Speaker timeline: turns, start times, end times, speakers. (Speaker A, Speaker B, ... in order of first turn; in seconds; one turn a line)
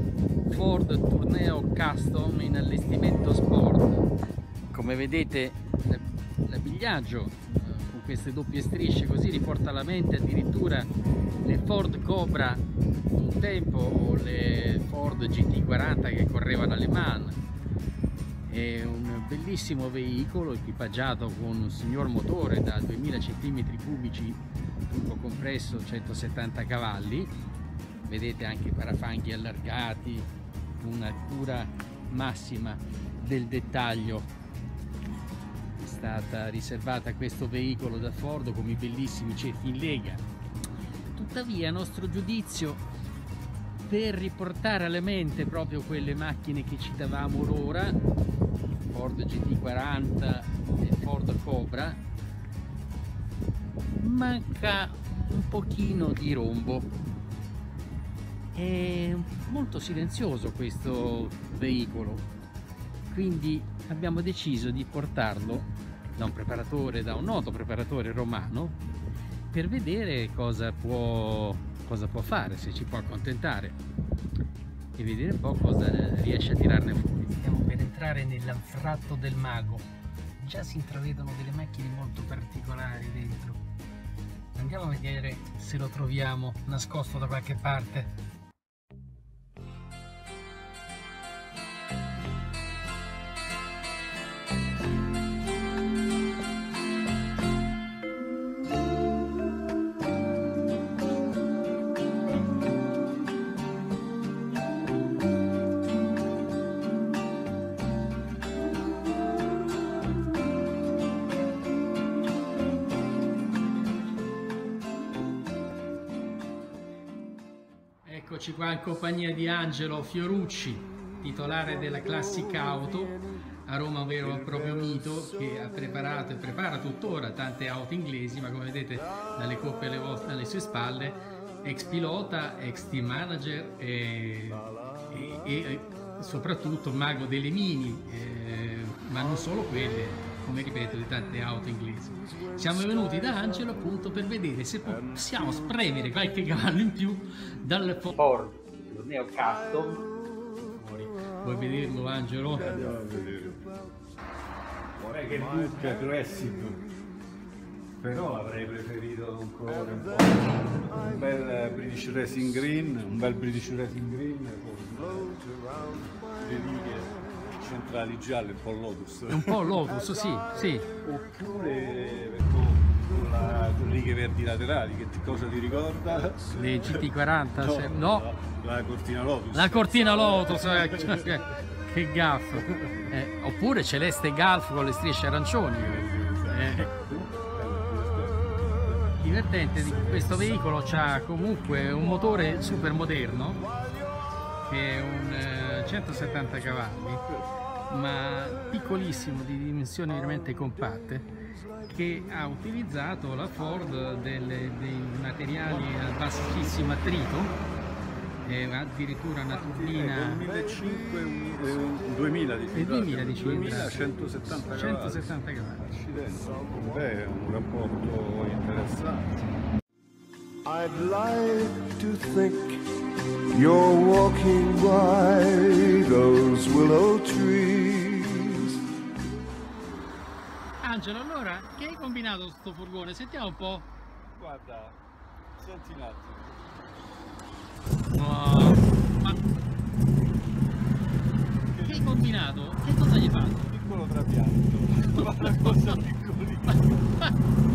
Speaker A: 0.5-4.1
Speaker A: 4.7-10.9
Speaker A: 11.4-17.4
Speaker A: 18.5-27.3
Speaker A: 28.0-30.3
Speaker A: 30.8-34.3
Speaker A: 35.8-40.2
Speaker A: 41.1-42.8
Speaker A: 43.8-48.0
Speaker A: 48.9-52.0
Speaker A: 53.9-56.9
Speaker A: 58.5-62.3
Speaker A: 63.1-68.8
Speaker A: 69.5-73.8
Speaker A: 75.0-83.6
Speaker A: 84.5-88.1
Speaker A: 118.0-150.1
Speaker A: 150.7-152.8
Speaker B: 152.6-153.6
Speaker B: 155.0-156.8
Speaker B: 158.0-169.8
Speaker A: 169.3-170.9
Speaker B: 171.0-181.4
Speaker A: 176.5-178.3
Speaker A: 179.5-186.9
Speaker B: 186.0-188.5
Speaker A: 189.2-193.7
Speaker A: 194.7-197.2
Speaker A: 197.9-201.3
Speaker A: 201.8-207.6
Speaker A: 208.4-210.5
Speaker B: 209.5-219.5
Speaker A: 212.7-215.8
Speaker C: 220.7-222.9
Speaker C: 223.5-228.8
Speaker A: 230.8-233.9
Speaker B: 234.3-235.0
Speaker B: 235.6-236.6
Speaker A: 238.1-239.4
Speaker B: 241.7-242.2
Speaker A: 241.8-243.7
Speaker B: 243.7-247.1
Speaker A: 245.1-246.0